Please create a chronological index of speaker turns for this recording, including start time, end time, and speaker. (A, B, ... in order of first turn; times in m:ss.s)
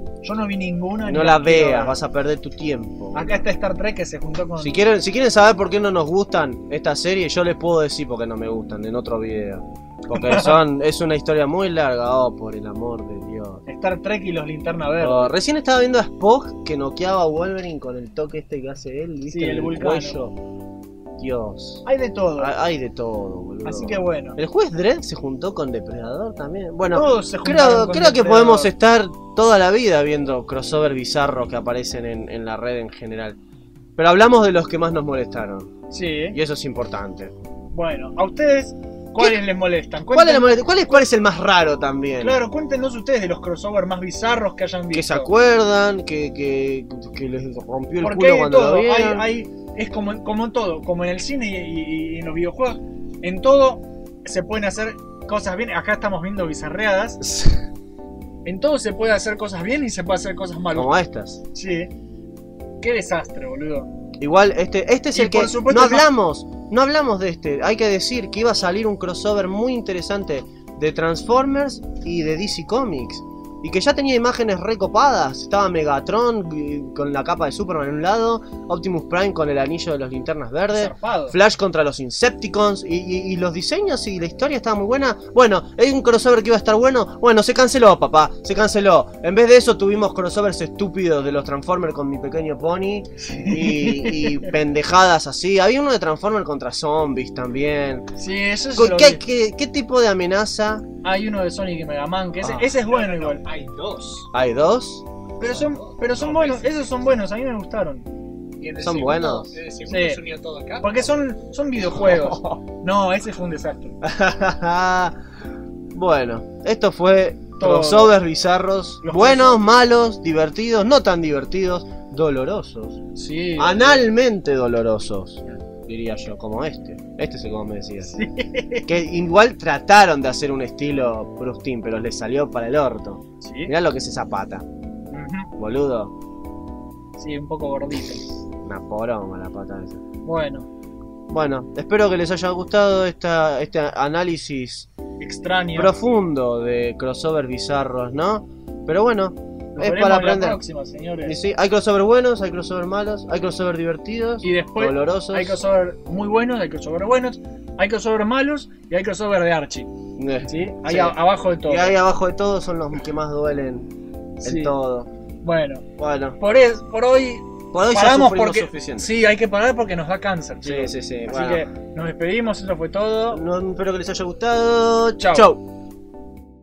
0:00.2-0:02.0 A
0:01.0-0:03.4 B
0:03.1-0:04.8 A
0:04.6-0:13.6 B
0:10.1-0:10.6 A
0:13.7-0:15.3 A
0:15.0-0:20.4 B
0:19.3-0:20.2 A
0:21.2-0:21.8 B
0:21.8-0:22.5 A
0:22.4-0:33.4 B
0:23.6-0:24.4 A
0:26.9-0:28.7 A
0:34.0-0:35.7 B
0:35.9-0:36.4 A
0:36.3-0:37.3 B
0:37.7-0:41.0 A
0:40.1-0:42.4 B
0:42.2-0:45.3 A
0:44.9-0:49.3 B
0:48.0-0:57.2 A
0:57.2-0:57.6 B
0:58.4-1:00.9 A
1:00.7-1:01.4 B
1:01.5-1:01.9 A
1:02.8-1:03.9 A
1:04.2-1:38.1 B
1:05.1-1:06.1 A
1:20.7-1:21.4 A
1:33.2-1:34.5 A
1:38.2-1:39.2 A
1:38.7-1:40.8 B
1:41.0-1:43.4 A
1:42.6-1:44.3 C
1:44.3-1:45.0 B
1:45.4-1:48.1 A
1:45.4-1:46.8 C
1:48.6-1:51.2 C
1:48.8-1:49.5 B
1:49.9-1:50.2 A
1:50.8-1:54.0 A
1:52.0-1:52.3 B
1:54.0-1:55.2 B
1:55.9-2:03.0 B
1:57.6-1:58.2 A
1:59.0-1:59.6 A
2:03.1-2:04.1 A
2:03.6-2:08.2 B
2:08.1-2:08.9 A
2:08.8-2:14.6 B
2:13.4-2:13.7 A
2:15.1-2:15.5 A
2:15.6-2:16.1 B
2:17.2-2:18.2 A
2:18.6-2:20.0 B
2:20.2-2:20.7 A
2:21.3-2:24.9 B
2:25.2-2:25.9 A
2:25.7-2:30.6 B
2:29.8-2:31.4 A
2:31.2-2:35.6 B
2:34.4-2:39.9 A
2:40.2-2:43.9 B
2:40.5-2:42.0 A
2:44.4-2:44.7 A
2:44.4-2:45.1 B
2:45.4-2:45.9 A
2:46.0-2:46.4 B
2:46.4-2:53.4 A
2:47.7-2:49.1 B
2:50.6-2:51.6 B
2:53.3-2:55.6 B
2:55.2-2:55.5 A